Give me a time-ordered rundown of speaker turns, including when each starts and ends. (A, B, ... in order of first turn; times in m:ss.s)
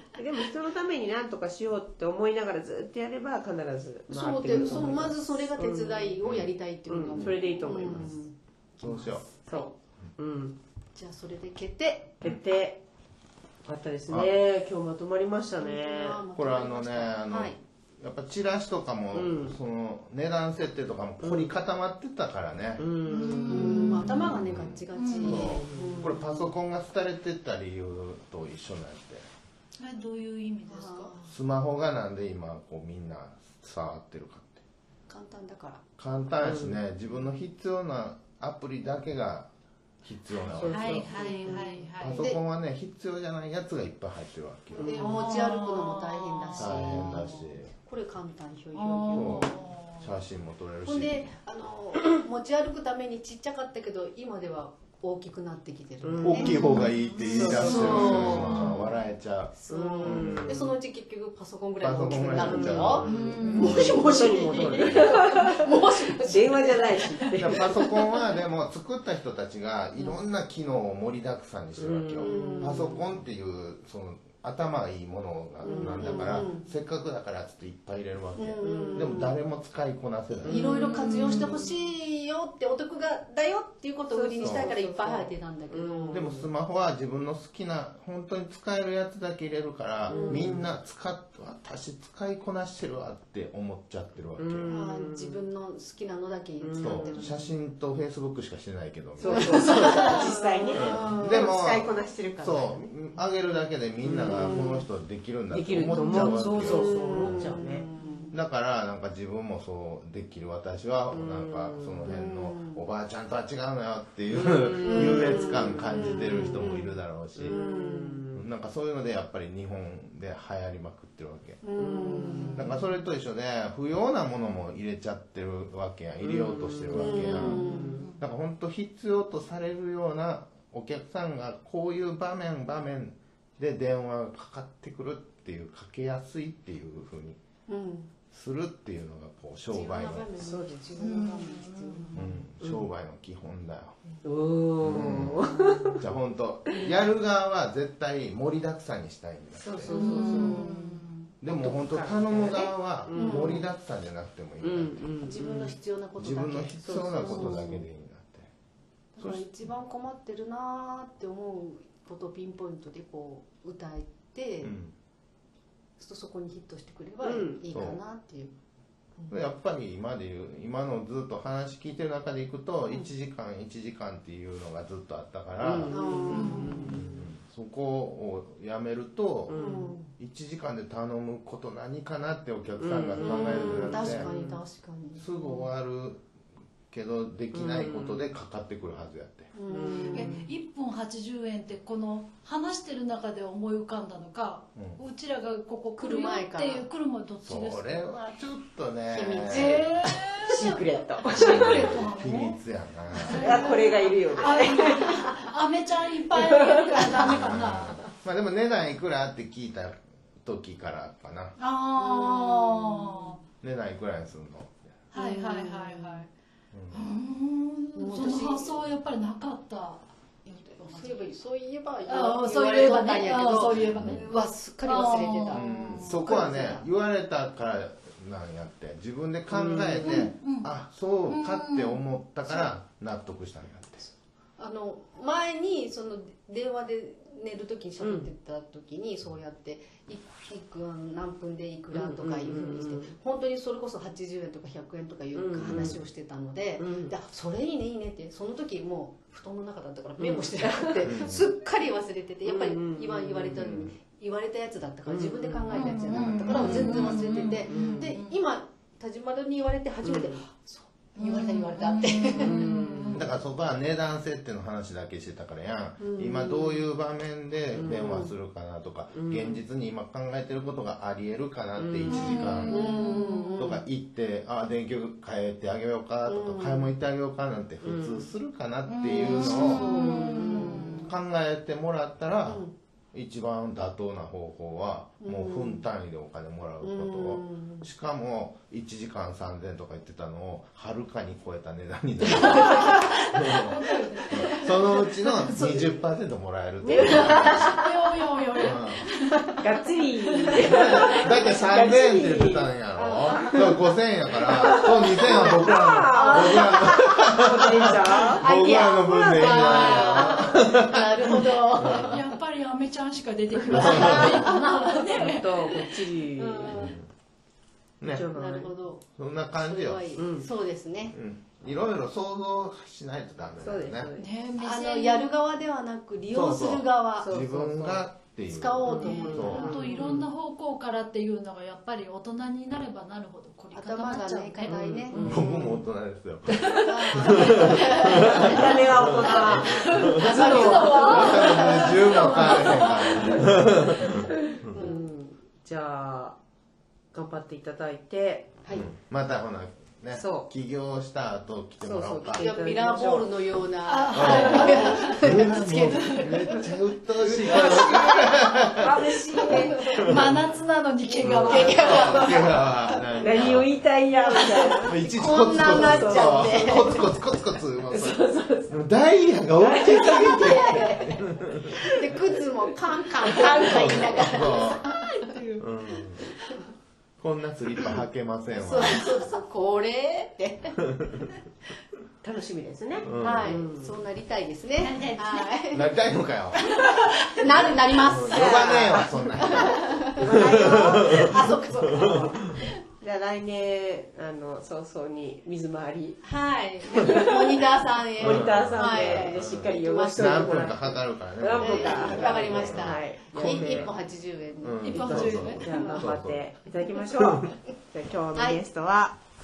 0:00.2-0:06.2 A
0:04.1-0:09.7 B
0:06.2-0:06.5 C
0:06.9-0:08.1 A
0:07.1-0:08.1 C
0:08.8-0:09.3 C
0:09.5-0:10.6 A
0:10.9-0:12.1 B
0:12.2-0:12.8 A
0:13.6-0:16.2 A
0:14.1-0:14.3 C
0:15.6-0:17.6 B
0:16.4-0:22.8 C
0:19.1-0:19.6 A
0:21.2-0:21.5 A
0:22.8-0:24.0 A
0:23.0-0:24.4 D
0:23.4-0:26.5 B
0:24.2-0:29.3 C
0:25.0-0:25.4 D
0:25.2-0:26.1 A
0:29.8-0:31.1 D
0:30.7-0:31.3 B
0:31.3-0:34.6 C
0:35.1-0:35.8 B
0:36.0-0:39.5 C
0:36.4-0:36.8 A
0:40.0-0:45.0 C
0:40.5-0:41.7 A
0:40.7-0:42.2 D
0:41.0-0:42.4 B
0:44.7-0:45.0 A
0:44.8-0:49.6 B
0:44.9-0:46.7 D
0:46.6-0:47.7 C
0:48.7-0:50.1 D
0:49.1-0:51.3 C
0:50.8-0:56.6 B
0:56.0-0:56.6 A
0:56.2-1:00.7 C
0:56.4-0:57.1 D
0:57.2-0:58.9 A
0:57.4-0:58.8 B
0:58.0-0:58.8 D
0:59.5-1:08.3 B
0:59.7-1:00.7 A
1:01.8-1:05.2 C
1:02.3-1:07.6 A
1:03.0-1:04.1 D
1:07.4-1:20.6 C
1:11.8-1:13.0 A
1:12.2-1:13.0 B
1:15.6-1:16.7 B
1:15.6-1:16.4 A
1:18.4-1:19.4 B
1:18.6-1:19.2 A
1:20.3-1:26.3 B
1:20.4-1:21.8 A
1:24.1-1:26.5 A
1:24.4-1:24.7 C
1:26.1-1:34.7 C
1:30.1-1:30.6 A
1:30.1-1:30.5 B
1:34.4-1:35.4 A
1:34.6-1:37.5 B
1:36.6-1:37.3 A
1:36.8-1:40.1 C
1:39.2-1:42.9 A
1:39.2-1:41.5 B
1:40.7-1:47.5 C
1:44.0-1:44.8 A
1:45.5-1:47.9 A
1:45.9-1:48.4 B
1:48.3-1:57.6 C
1:51.1-1:52.2 A
1:52.0-1:52.8 B
1:54.3-1:56.8 A
1:54.8-1:58.2 B
1:57.4-1:58.4 A
1:58.3-2:01.6 C
2:01.6-2:02.7 B
2:01.7-2:02.7 A
2:02.5-2:17.4 C
2:06.2-2:08.1 A
2:06.9-2:08.1 B
2:07.4-2:08.2 D
2:17.7-2:18.1 B
2:18.3-2:20.3 C
2:19.7-2:22.2 B
2:20.4-2:21.1 A
2:21.0-2:22.2 D
2:22.1-2:24.0 C
2:24.2-2:26.0 A
2:24.8-2:30.1 C
2:29.5-2:30.7 A
2:29.9-2:30.7 B
2:29.9-2:31.3 D
2:31.4-2:35.1 C
2:31.4-2:33.7 A
2:33.1-2:33.6 B
2:34.6-2:35.7 A
2:35.2-2:37.8 B
2:36.2-2:38.5 C
2:36.8-2:37.7 A
2:39.2-2:44.8 B
2:39.2-2:39.5 C
2:44.6-2:44.9 C
2:46.0-2:48.5 B
2:47.2-2:47.7 A
2:47.7-2:48.0 C
2:49.3-2:56.0 C
2:55.6-2:57.0 A
2:55.8-2:57.0 B
2:56.3-2:56.8 D
2:56.8-2:59.6 C
2:59.5-2:59.9 A
2:59.5-3:00.1 B
3:00.1-3:04.3 C
3:02.8-3:04.6 A
3:03.2-3:05.6 B
3:05.2-3:06.2 C
3:06.9-3:09.5 C
3:07.5-3:08.3 A
3:09.5-3:10.4 B
3:09.7-3:10.4 A
3:10.1-3:18.0 D
3:16.0-3:16.9 B
3:17.4-3:19.9 C
3:19.1-3:20.8 B
3:19.7-3:22.6 D
3:20.4-3:22.0 A
3:21.4-3:23.7 C
3:23.2-3:28.0 D
3:23.3-3:25.1 A
3:24.4-3:25.0 B
3:26.3-3:27.2 A
3:27.1-3:31.5 C
3:31.6-3:33.4 D
3:32.0-3:33.4 B
3:33.6-3:34.9 C
3:35.1-3:36.3 D
3:35.1-3:36.3 B
3:36.7-3:37.0 C
3:36.9-3:41.4 D
3:38.0-3:38.8 B
3:40.5-3:46.9 B
3:42.1-3:46.2 D
3:43.8-3:44.2 C
3:45.5-3:54.1 C
3:49.5-3:50.2 A
3:50.0-3:50.7 D
3:51.3-3:52.0 D
3:54.6-4:22.7 B
3:58.0-3:58.3 A
4:01.9-4:03.1 A
4:05.3-4:06.0 A
4:05.6-4:06.0 C
4:06.8-4:07.1 A
4:10.2-4:11.2 A
4:11.0-4:11.5 C
4:12.4-4:13.9 A
4:13.6-4:13.9 C
4:15.0-4:15.9 A
4:15.7-4:18.4 D
4:16.4-4:16.9 C
4:16.5-4:17.1 A
4:17.6-4:18.1 A
4:20.0-4:20.4 A
4:21.2-4:23.3 D
4:22.4-4:23.2 A
4:23.1-4:32.9 C
4:26.0-4:26.9 B
4:27.7-4:28.3 A
4:29.1-4:29.6 A
4:31.8-4:32.6 A
4:32.1-4:33.6 D
4:32.7-4:33.8 B
4:33.6-4:53.7 C
4:36.3-4:36.9 B
4:37.8-4:38.3 A
4:38.9-4:41.1 D
4:39.1-4:41.1 B
4:42.5-4:42.7 B
4:45.2-4:45.8 B
4:46.8-4:47.9 B
4:52.5-4:53.1 B
4:52.6-4:54.8 D
4:53.9-4:54.7 B
4:54.3-4:57.8 C
4:55.4-4:55.9 B
4:56.8-4:57.8 A
4:57.0-4:59.6 D
4:57.0-4:57.6 B
4:58.6-4:59.0 C
4:59.6-5:03.9 A
5:00.6-5:12.2 C
5:00.9-5:01.2 D
5:03.0-5:03.6 B
5:04.4-5:08.4 A
5:04.7-5:07.0 B
5:08.1-5:12.2 B
5:09.0-5:10.5 A
5:11.8-5:15.9 D
5:13.7-5:16.8 A
5:13.7-5:14.5 C
5:16.3-5:17.0 B
5:16.7-5:17.1 C
5:18.0-5:18.3 C
5:18.1-5:18.7 A
5:18.3-5:19.0 B
5:19.1-5:20.1 C
5:19.6-5:21.2 B
5:20.2-5:20.5 A
5:21.1-5:24.1 C
5:23.6-5:24.3 A
5:24.2-5:25.3 D
5:24.6-5:27.3 B
5:26.3-5:29.8 C
5:27.2-5:28.1 A
5:28.4-5:29.8 B
5:28.8-5:30.2 A
5:29.5-5:35.4 D
5:33.7-5:35.8 B
5:34.6-5:35.8 A
5:35.2-5:36.7 C
5:36.8-5:39.6 B
5:37.2-5:44.8 C
5:38.1-5:38.5 D
5:38.3-5:41.6 A
5:39.6-5:43.8 D
5:40.2-5:45.0 B
5:42.6-5:43.4 A
5:44.7-5:46.4 A
5:47.1-5:48.6 A
5:48.7-5:52.5 C
5:50.1-5:50.5 A
5:51.8-5:53.5 A
5:52.4-5:56.6 B
5:53.8-5:56.4 D
5:54.1-5:58.8 C
5:54.2-5:54.8 A
5:57.2-5:58.7 B
5:57.4-5:58.2 A
5:58.7-5:59.9 A
5:59.3-6:00.0 B
5:59.8-6:02.1 D
6:00.0-6:00.4 C
6:01.0-6:03.5 B
6:01.2-6:03.8 C
6:01.3-6:02.4 A
6:03.2-6:07.1 A
6:04.2-6:07.1 B
6:04.8-6:11.7 C
6:07.9-6:08.8 A
6:09.6-6:10.9 A
6:10.0-6:11.1 B
6:11.6-6:12.0 A
6:11.9-6:15.2 B
6:13.2-6:14.2 A
6:13.6-6:14.9 C
6:15.2-6:15.6 D
6:15.6-6:16.2 C
6:17.2-6:19.1 C
6:18.5-6:20.8 B
6:22.2-6:24.0 A
6:23.0-6:23.4 D
6:23.0-6:23.4 C
6:23.2-6:25.9 B
6:24.8-6:25.5 D
6:25.7-6:26.6 C
6:26.5-6:27.8 D
6:27.3-6:32.3 B
6:28.1-6:29.8 C
6:28.3-6:32.5 A
6:30.3-6:31.3 C
6:33.0-6:36.2 A
6:36.2-6:40.8 B
6:36.9-6:37.6 A
6:38.2-6:43.9 A
6:38.2-6:43.9 C
6:41.5-6:46.0 B
6:44.6-6:46.4 C
6:44.8-6:46.0 D
6:45.0-6:49.2 A
6:48.3-6:48.6 B